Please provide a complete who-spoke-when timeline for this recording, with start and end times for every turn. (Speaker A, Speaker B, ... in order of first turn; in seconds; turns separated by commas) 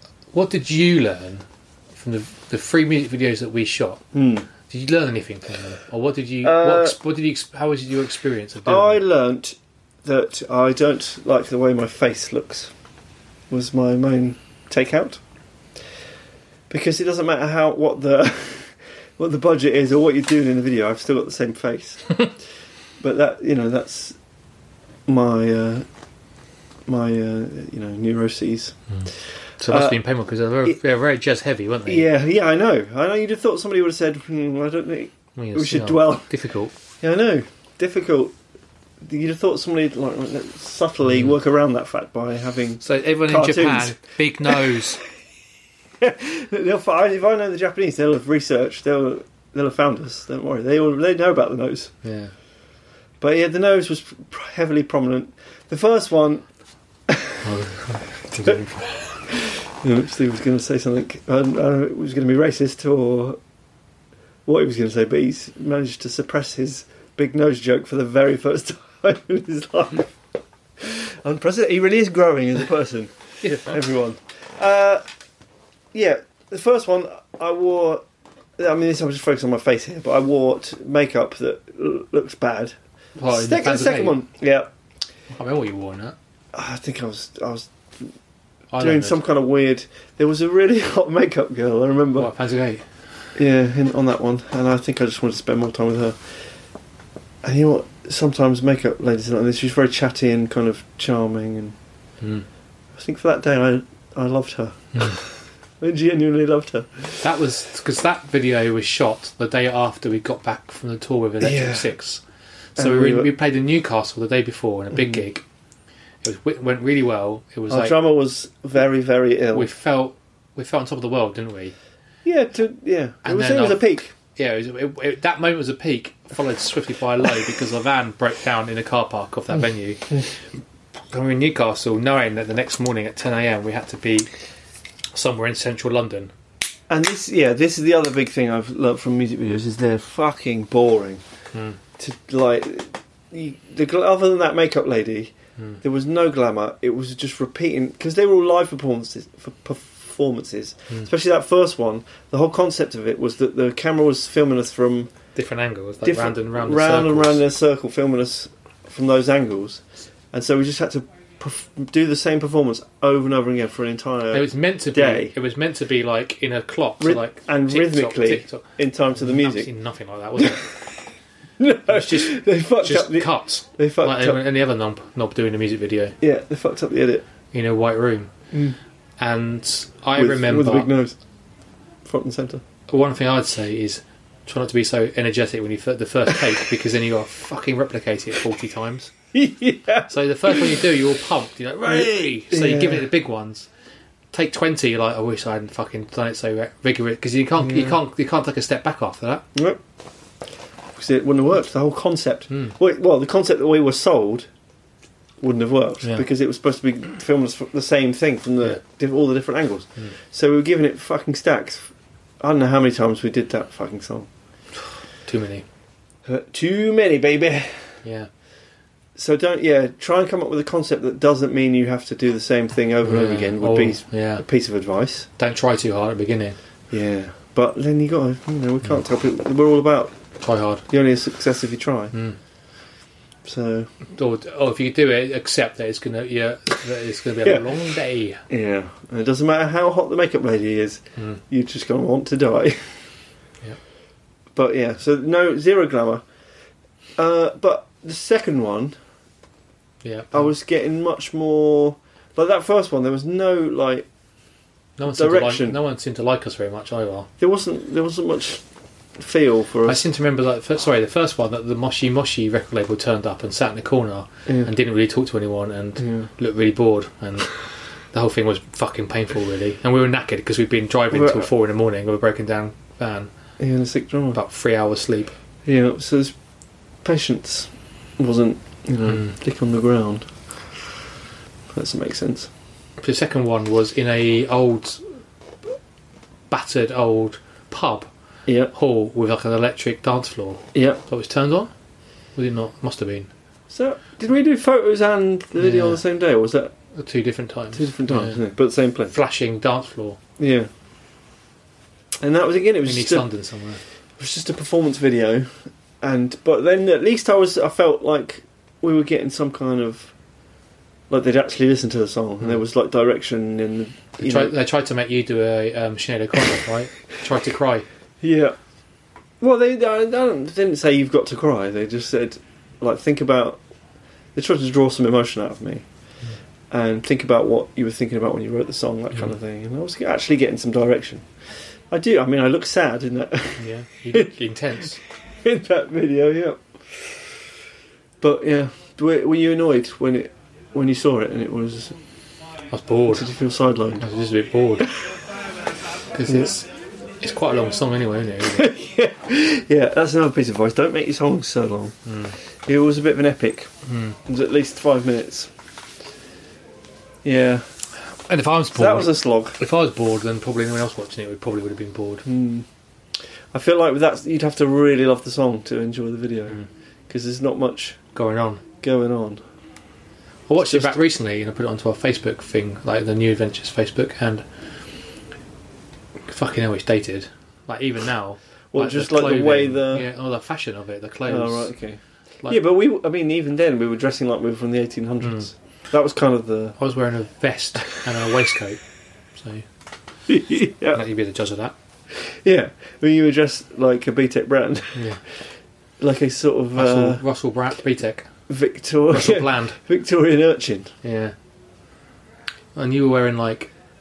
Speaker A: 0.3-4.0, Speaker B: 4.1-4.5, Speaker A: 4.7-9.0, Speaker B: 6.4-7.0, Speaker B: 8.7-12.7, Speaker B: 13.5-15.2, Speaker B: 16.7-22.2, Speaker B: 23.0-24.2, Speaker B: 25.1-25.9, Speaker B: 26.9-28.8, Speaker A: 28.9-32.1, Speaker B: 29.7-30.0, Speaker B: 31.9-36.3, Speaker A: 35.3-36.7, Speaker B: 37.0-38.3, Speaker B: 39.0-44.9, Speaker A: 42.8-45.0, Speaker B: 46.0-51.9, Speaker A: 52.0-52.3, Speaker B: 53.2-56.4, Speaker B: 57.1-57.5, Speaker A: 57.4-59.1, Speaker B: 58.4-63.4, Speaker B: 64.5-70.2, Speaker B: 70.8-75.0, Speaker A: 73.4-73.8, Speaker B: 75.9-78.0, Speaker B: 78.6-82.7, Speaker A: 83.2-84.2, Speaker B: 83.3-84.7, Speaker A: 85.3-86.2, Speaker B: 86.5-88.1, Speaker A: 88.7-89.2, Speaker B: 88.8-92.3, Speaker A: 92.2-93.0, Speaker B: 93.3-96.4, Speaker B: 97.4-101.8, Speaker A: 102.2-102.5, Speaker B: 102.9-107.3, Speaker A: 107.2-112.2, Speaker B: 111.4-111.9, Speaker A: 112.7-115.4, Speaker B: 112.8-113.3, Speaker A: 116.2-118.0, Speaker B: 117.7-119.7, Speaker A: 119.5-121.7, Speaker B: 122.2-124.1, Speaker A: 123.2-130.4, Speaker A: 131.1-134.3, Speaker A: 135.1-136.3, Speaker B: 136.9-141.2, Speaker A: 141.5-141.8, Speaker B: 142.0-155.1, Speaker A: 155.3-157.4, Speaker B: 156.0-159.8, Speaker B: 160.3-165.3, Speaker A: 164.3-170.7, Speaker B: 167.0-169.7, Speaker B: 170.4-170.8, Speaker B: 171.6-174.4, Speaker A: 171.9-176.2, Speaker B: 176.2-177.2, Speaker A: 177.5-178.3, Speaker A: 179.2-180.9, Speaker B: 180.2-181.2, Speaker B: 182.0-182.6, Speaker A: 182.9-189.1, Speaker B: 189.3-190.8, Speaker A: 190.1-193.7, Speaker B: 191.8-193.1, Speaker A: 194.3-199.5, Speaker B: 197.6-198.0, Speaker B: 199.5-199.8, Speaker B: 200.9-204.5, Speaker B: 205.4-214.3, Speaker A: 215.2-215.6, Speaker B: 216.2-217.9, Speaker A: 218.0-218.3, Speaker B: 219.2-225.3, Speaker A: 223.0-224.4, Speaker A: 225.4-226.6, Speaker B: 226.9-230.1, Speaker A: 230.4-230.8, Speaker B: 230.9-232.1, Speaker B: 233.4-233.9, Speaker A: 234.1-238.4, Speaker B: 237.4-237.8, Speaker B: 238.5-243.0, Speaker B: 244.5-246.2, Speaker B: 247.2-248.9, Speaker A: 250.0-250.5, Speaker B: 250.3-254.1, Speaker A: 255.0-257.3, Speaker B: 255.1-255.8, Speaker B: 257.4-258.6, Speaker B: 259.2-260.0, Speaker A: 259.9-267.6, Speaker B: 266.0-266.3, Speaker A: 268.1-273.3, Speaker B: 271.1-271.5, Speaker B: 273.6-274.4, Speaker A: 274.3-275.3, Speaker B: 275.6-276.3, Speaker B: 277.0-280.3, Speaker A: 279.1-279.3, Speaker B: 281.7-282.5, Speaker A: 283.0-285.0, Speaker A: 286.5-288.1, Speaker B: 288.4-288.7, Speaker A: 288.7-291.7, Speaker B: 290.7-291.0, Speaker A: 292.4-293.3, Speaker B: 293.7-296.7, Speaker A: 295.6-296.0, Speaker A: 296.9-298.4, Speaker B: 297.7-299.1, Speaker A: 299.1-300.2, Speaker B: 300.4-300.7, Speaker B: 302.2-303.3, Speaker A: 302.8-303.8, Speaker B: 304.2-310.1, Speaker B: 311.1-314.6, Speaker A: 314.2-317.9, Speaker B: 318.2-318.6, Speaker B: 319.4-323.6, Speaker B: 324.3-325.8, Speaker B: 326.7-331.3, Speaker B: 331.9-334.3, Speaker A: 333.6-335.0, Speaker B: 335.4-337.4, Speaker B: 338.2-342.0, Speaker A: 342.7-343.3, Speaker B: 343.1-344.1, Speaker A: 344.0-344.9, Speaker A: 346.1-346.7, Speaker A: 347.2-348.7, Speaker B: 348.5-351.9, Speaker A: 352.1-352.4, Speaker B: 352.6-353.7, Speaker A: 353.8-354.2, Speaker B: 354.2-355.5, Speaker B: 357.2-357.6, Speaker A: 358.3-362.2, Speaker B: 358.7-359.6, Speaker B: 362.2-362.6, Speaker B: 363.5-368.0, Speaker A: 368.1-368.6, Speaker B: 368.8-369.4, Speaker A: 370.5-374.4, Speaker B: 370.6-371.0, Speaker A: 376.3-381.7, Speaker B: 378.7-380.1, Speaker B: 381.3-386.8, Speaker A: 386.8-388.8, Speaker A: 389.3-389.6, Speaker B: 390.3-391.0, Speaker A: 390.9-391.7, Speaker B: 392.1-395.4, Speaker A: 394.9-395.2, Speaker B: 396.0-397.2, Speaker A: 396.7-398.3, Speaker B: 398.5-400.9, Speaker A: 399.1-399.8, Speaker A: 401.0-401.3, Speaker A: 402.7-403.7